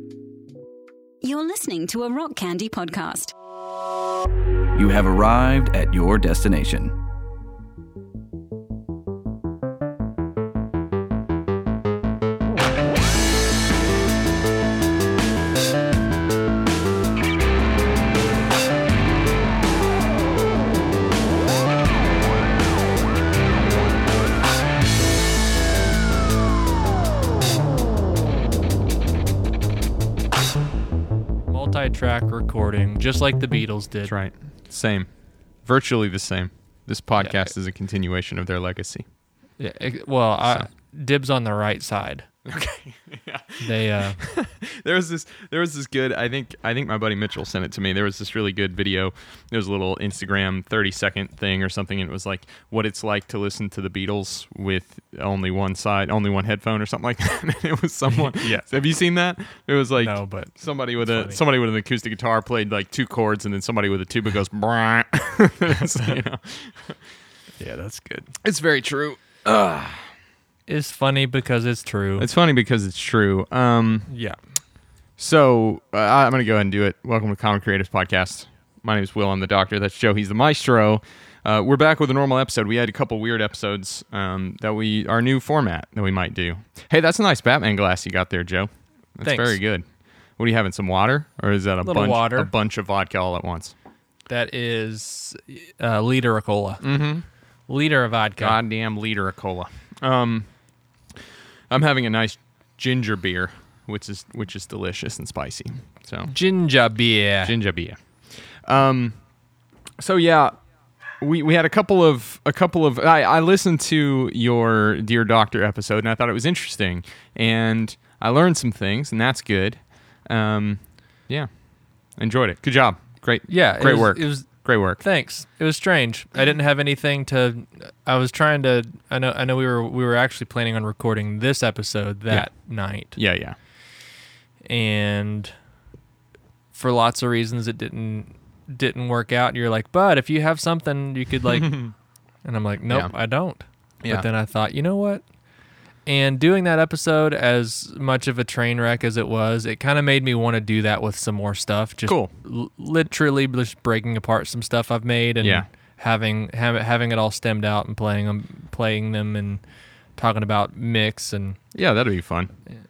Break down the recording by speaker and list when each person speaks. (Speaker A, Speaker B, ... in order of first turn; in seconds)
Speaker A: 1.2-3.3
Speaker B: 4.8-6.9
Speaker C: 31.5-34.1, 37.2-37.5, 39.6-42.3, 43.6-44.2, 58.2-58.7, 60.0-61.4, 67.6-68.3, 70.7-72.3, 74.1-74.4, 89.2-89.6, 91.8-92.5, 94.3-96.8, 97.7-98.6, 106.3-107.5, 123.5-133.2, 134.7-135.5, 136.7-141.9, 142.4-145.2, 146.1-159.6, 160.2-161.6
Speaker D: 34.1-35.1, 35.6-39.0, 42.5-67.0, 68.4-70.1, 72.2-74.1, 75.2-89.9, 90.4-93.7, 96.8-97.2, 98.4-100.5, 101.7-106.3, 107.4-108.0, 108.6-109.2, 110.0-110.6, 111.2-121.5, 122.2-125.0, 133.2-133.6, 141.5-141.9, 152.0-152.3, 155.4-155.7, 161.8-162.5